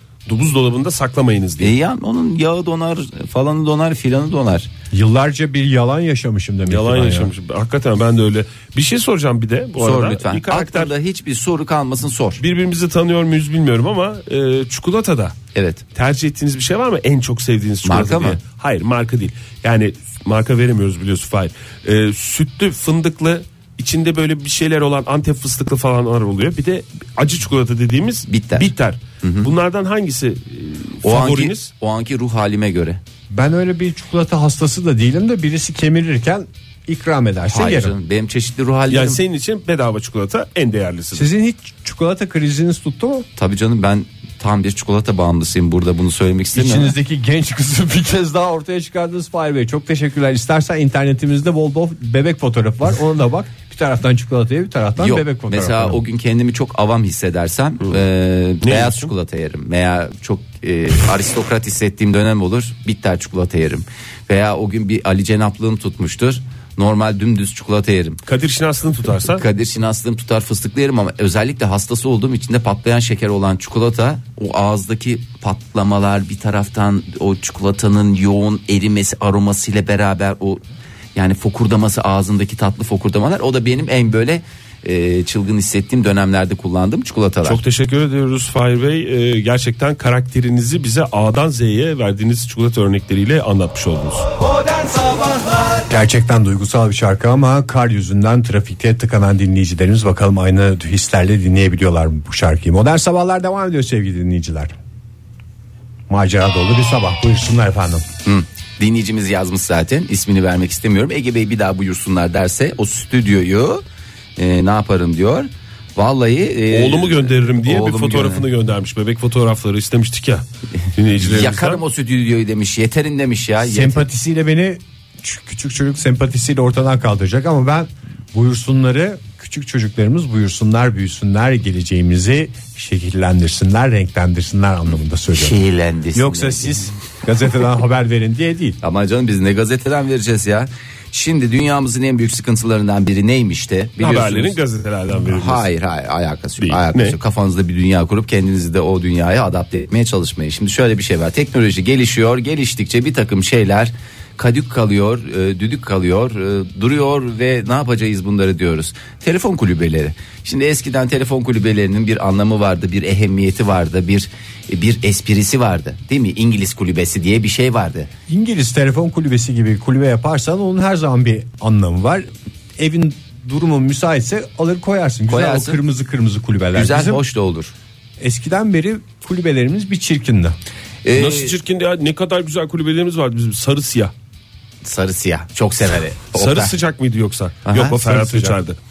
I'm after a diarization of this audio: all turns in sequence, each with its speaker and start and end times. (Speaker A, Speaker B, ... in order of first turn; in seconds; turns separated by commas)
Speaker A: 0.3-1.7, Speaker B: 1.6-4.7, Speaker C: 4.9-7.3, Speaker A: 6.7-10.9, Speaker B: 9.8-12.4, Speaker A: 12.4-15.3, Speaker B: 15.6-15.8, Speaker A: 15.9-31.7, Speaker B: 17.8-18.4, Speaker B: 28.3-28.7, Speaker B: 29.2-29.5, Speaker B: 31.0-33.0, Speaker C: 33.3-37.9, Speaker B: 37.5-39.2, Speaker A: 38.9-41.3, Speaker C: 41.1-43.3, Speaker B: 43.4-47.0, Speaker C: 46.5-56.0, Speaker B: 55.0-68.2, Speaker A: 58.6-59.1, Speaker A: 68.3-69.4, Speaker B: 69.3-80.6, Speaker B: 81.2-87.6, Speaker A: 87.4-94.3, Speaker C: 95.9-104.7, Speaker C: 106.1-108.1, Speaker B: 108.2-113.8, Speaker B: 114.4-118.5, Speaker A: 116.7-121.8, Speaker B: 121.2-124.1, Speaker C: 123.6-135.6, Speaker B: 135.3-136.9, Speaker C: 136.2-138.8, Speaker B: 138.8-144.6, Speaker A: 144.0-145.7, Speaker B: 145.2-168.1, Speaker A: 146.6-147.2, Speaker C: 168.3-177.2, Speaker B: 175.3-175.8, Speaker B: 176.7-177.7, Speaker C: 178.2-180.6, Speaker B: 181.0-181.6, Speaker A: 181.1-184.1, Speaker B: 184.8-186.7, Speaker A: 186.3-188.8, Speaker B: 187.7-188.6